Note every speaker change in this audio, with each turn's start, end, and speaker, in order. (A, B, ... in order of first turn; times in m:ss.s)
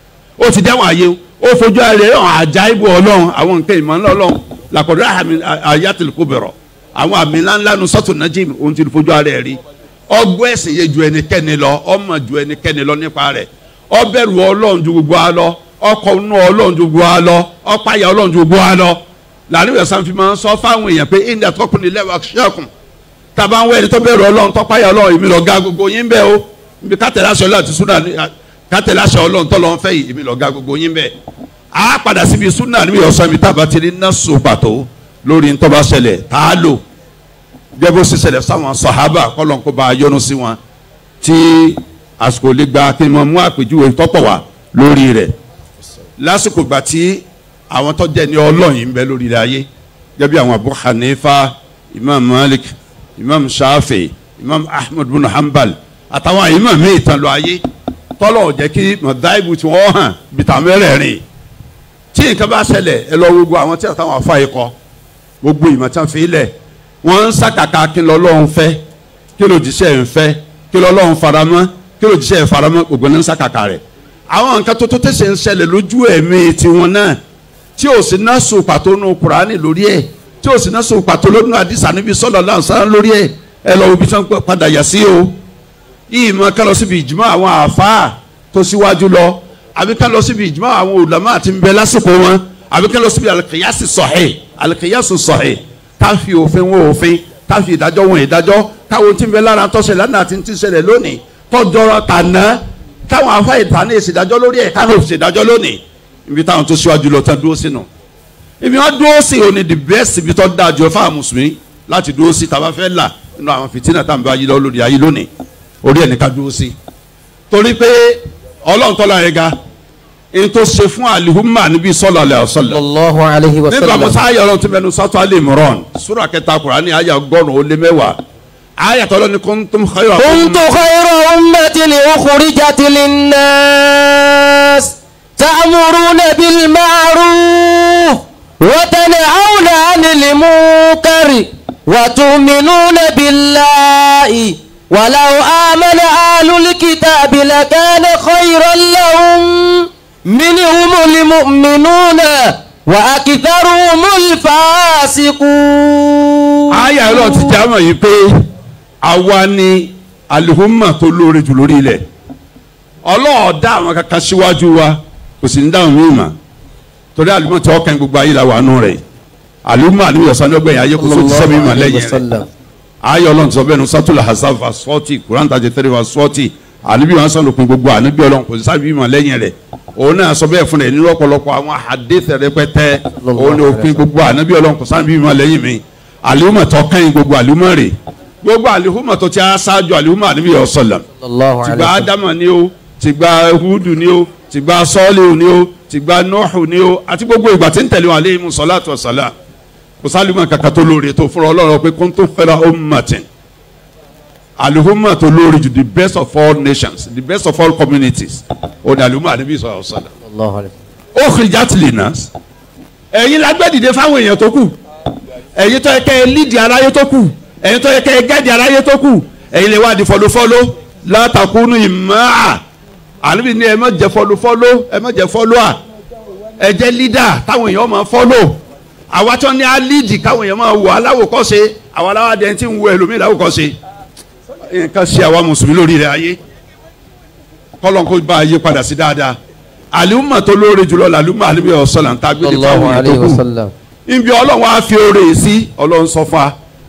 0:00.4-0:22.7 A
0:23.4-0:31.1 A
0:31.7-0:36.8 A
0:37.8-0:40.6 A
0:41.2-0:45.3 A
0:46.2-0:49.7 A
0:50.2-0:57.6 A
0:58.2-1:01.2 A
1:02.1-1:04.7 A
1:05.4-1:08.8 A
1:09.4-1:17.2 A
1:17.8-1:25.4 A
1:26.1-1:47.9 A
1:48.6-1:55.3 A
1:55.8-1:56.7 A
1:57.5-1:59.5 A
2:00.3-2:02.8 A
2:02.7-2:04.2 B
2:03.7-2:08.2 A
2:08.8-2:10.7 A
2:10.2-2:37.5 B
2:36.7-2:38.4 A
2:39.0-2:42.0 A
2:43.0-2:46.4 A
2:47.2-2:49.0 A
2:49.6-2:52.2 A
2:51.0-2:52.5 B
2:53.0-3:11.0 A
3:03.2-3:04.0 B
3:11.2-3:12.1 B
3:11.6-3:19.3 A
3:20.0-3:23.3 A
3:24.6-3:30.1 A
3:30.2-3:30.7 B
3:31.1-3:32.3 A
3:33.1-3:34.7 A
3:35.6-3:42.6 A
3:43.2-3:45.8 A
3:46.6-3:48.6 A
3:49.1-3:53.8 A
3:54.7-3:56.4 A
3:57.8-3:59.4 A
3:59.9-4:03.4 A
4:02.4-4:03.7 B
4:04.1-4:06.5 A